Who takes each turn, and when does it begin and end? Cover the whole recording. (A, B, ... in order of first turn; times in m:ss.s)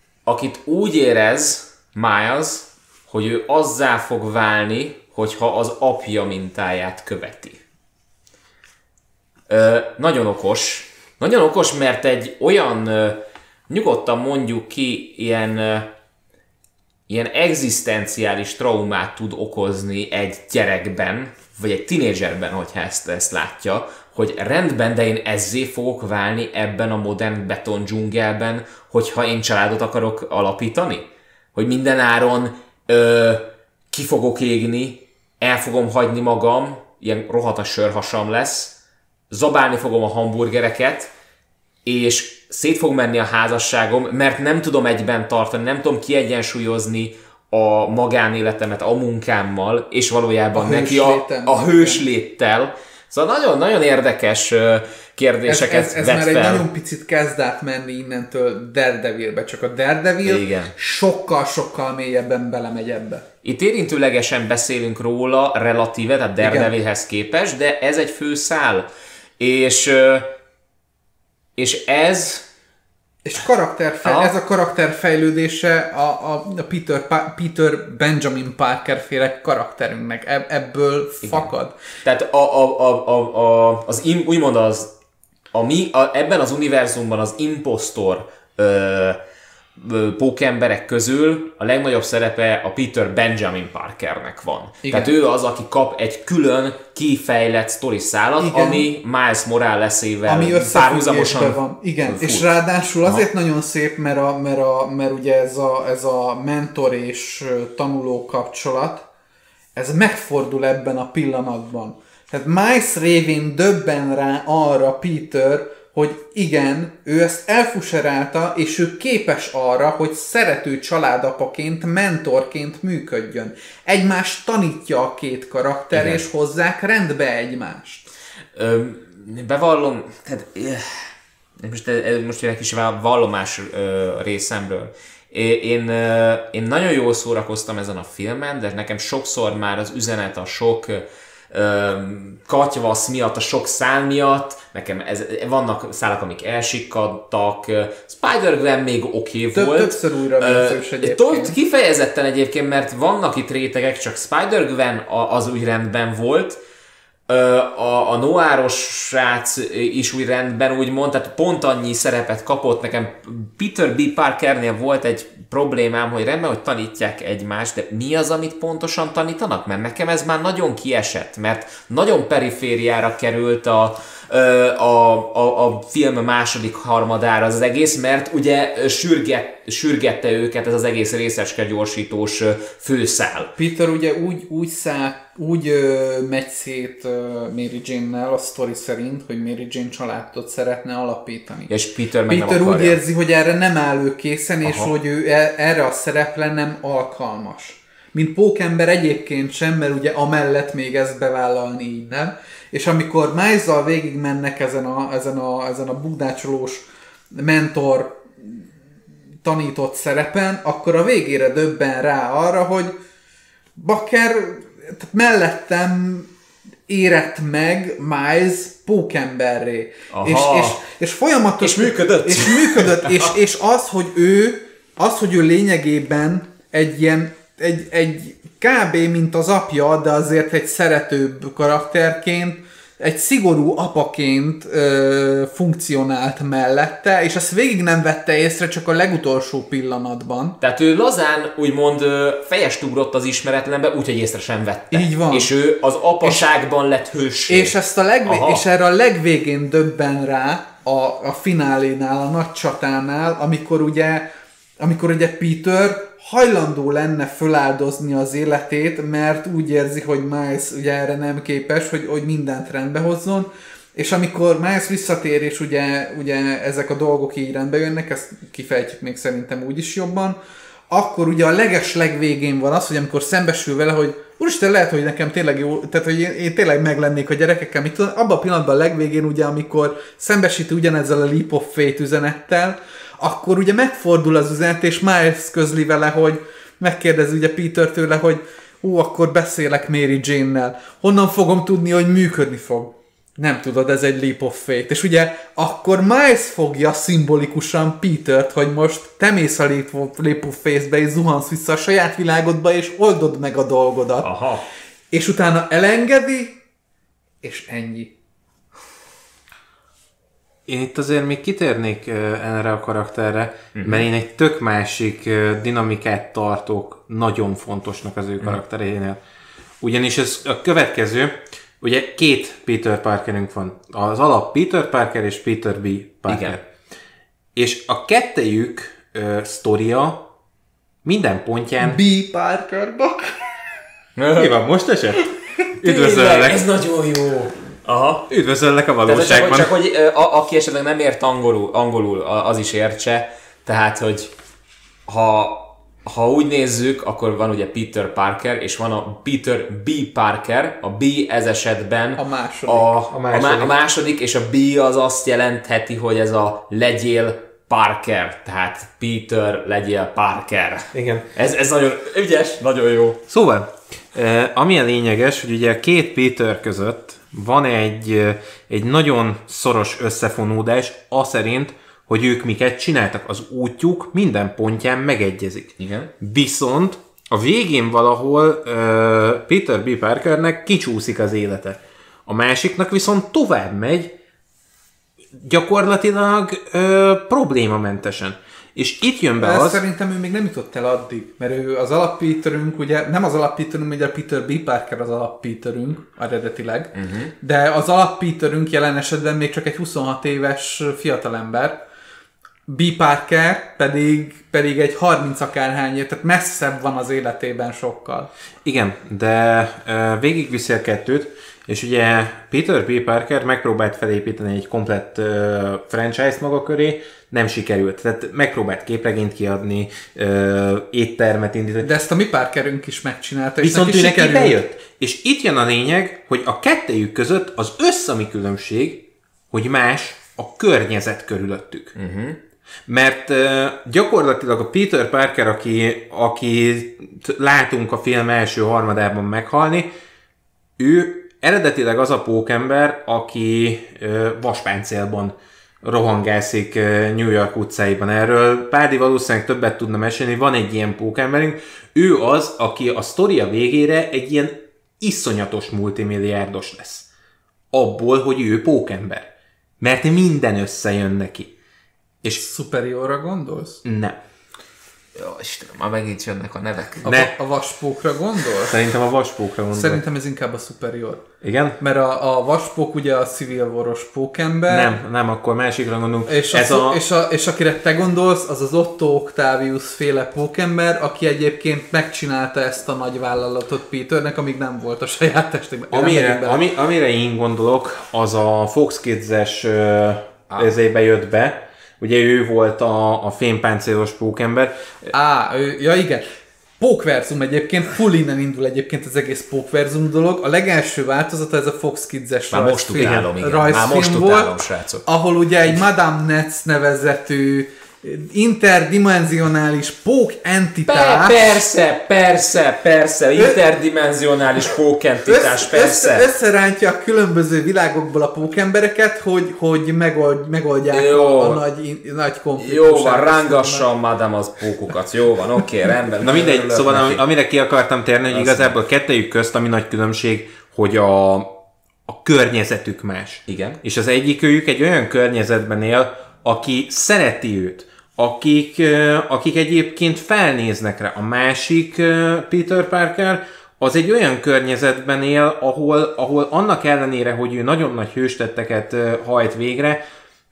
0:00.3-0:07.6 A
0:09.5-0:15.9 A
0:17.1-0:38.8 A
0:39.3-0:41.1 A
0:41.8-0:56.7 A
0:50.5-0:52.0 B
0:55.5-1:03.2 B
1:00.2-1:00.7 A
1:03.4-1:08.9 A
1:06.4-1:06.7 B
1:09.4-1:10.3 A
1:11.6-1:12.4 A
1:13.2-1:21.8 B
1:14.0-1:14.3 A
1:21.2-1:21.5 A
1:22.0-1:24.9 A
1:25.5-1:29.2 A
1:29.8-1:42.5 A
1:34.8-1:35.2 B
1:38.4-1:38.9 B
1:40.3-1:49.1 B
1:49.8-2:08.1 B
2:05.9-2:06.3 A
2:08.6-2:36.6 A
2:29.5-2:31.6 B
2:37.3-3:03.5 A
3:03.6-3:11.7 B
3:11.7-3:13.0 A
3:12.3-3:26.8 B
3:14.6-3:14.9 A
3:27.4-3:28.6 B
3:29.4-3:33.0 B
3:33.8-3:36.3 B
3:36.9-4:00.6 B
3:40.1-3:40.8 A
3:41.6-3:43.3 A
4:00.6-4:08.6 A
4:04.9-4:05.5 B
4:07.5-4:14.3 B
4:14.8-4:30.4 B
4:30.9-5:04.3 B
5:04.2-5:04.6 A
5:05.1-5:06.6 B
5:07.4-5:08.1 B
5:10.7-5:19.2 C
5:13.7-5:14.0 A
5:19.8-5:26.7 C
5:26.3-5:26.6 A
5:27.6-5:30.2 C
5:31.0-5:32.0 C
5:31.8-5:33.5 B
5:34.2-5:34.5 A
5:34.4-5:36.7 C
5:35.8-5:38.3 A
5:38.3-5:39.7 C
5:39.0-5:44.3 A
5:45.1-6:03.2 A
5:52.2-5:53.0 B
5:53.1-5:53.7 C
6:00.9-6:01.3 C
6:03.3-6:24.1 C
6:15.8-6:16.1 A
6:25.3-6:29.8 C
6:29.4-6:41.8 B
6:37.0-6:37.3 A
6:42.7-6:48.3 B
6:48.6-7:01.9 C
7:01.8-7:04.6 B
7:03.6-7:11.9 C
7:12.0-7:12.4 A
7:12.9-7:19.9 C
7:20.8-7:37.1 C
7:37.7-7:39.3 C
7:39.8-7:41.5 C
7:42.4-7:43.8 B
7:43.8-7:44.2 C
7:45.2-7:47.1 A
7:47.0-7:48.8 B
7:47.0-7:47.3 C
7:48.7-7:50.0 C
7:49.7-7:51.3 B
7:51.4-7:51.8 C
7:51.8-7:54.9 B
7:54.7-7:57.0 C
7:56.3-8:06.6 B
8:05.9-8:15.1 C
8:15.1-8:16.3 B
8:16.8-8:31.5 B
8:22.5-8:25.0 A
8:23.0-8:23.3 C
8:30.9-8:36.3 A
8:35.3-8:43.9 B
8:40.9-8:41.6 A
8:42.6-8:47.2 A
8:46.2-8:51.5 C
8:48.3-8:48.8 A
8:52.1-9:10.0 C
8:53.5-8:53.8 A